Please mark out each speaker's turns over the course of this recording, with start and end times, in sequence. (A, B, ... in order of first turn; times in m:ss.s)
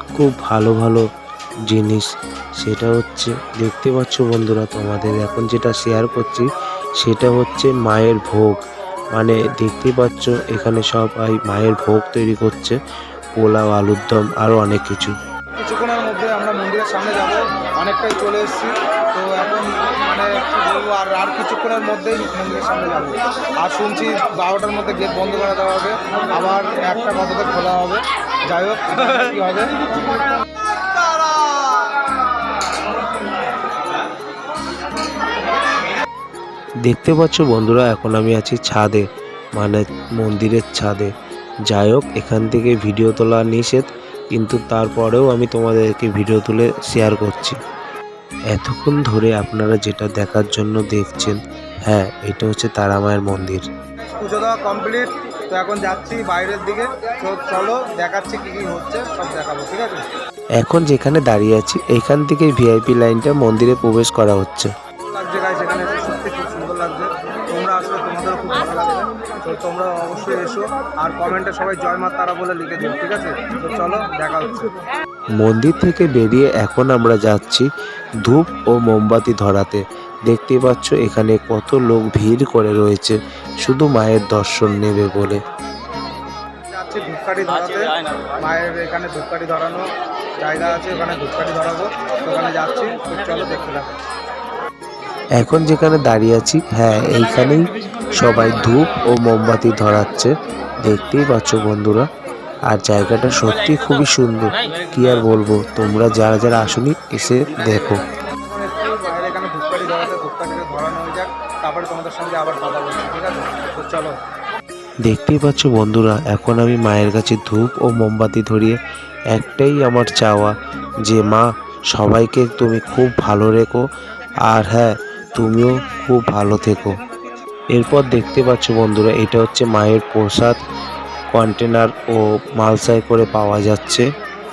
0:00.2-0:01.0 A
0:01.7-0:02.1 A
0:02.6-0:06.5 A
0:07.0-0:08.6 A
0:09.1-0:12.8 A
0:13.4-0:15.1 A
0:15.5-0:29.7 B
0:30.8-0:31.9 B
0:36.8-0:41.1 A
0:41.7-0:47.6 A
0:48.5-0:53.6 A
0:54.0-1:00.0 B
1:00.6-1:04.7 A
1:05.0-1:14.7 B
1:15.4-1:17.7 A
1:18.2-1:25.4 A
1:26.7-1:29.8 B
1:30.4-1:34.0 B
1:35.4-1:42.1 A
1:42.7-1:48.0 A
1:48.4-1:54.1 B
1:55.0-1:58.8 A
1:59.3-2:03.8 A
2:04.4-2:07.0 A
2:07.7-2:10.6 A
2:11.3-2:14.0 A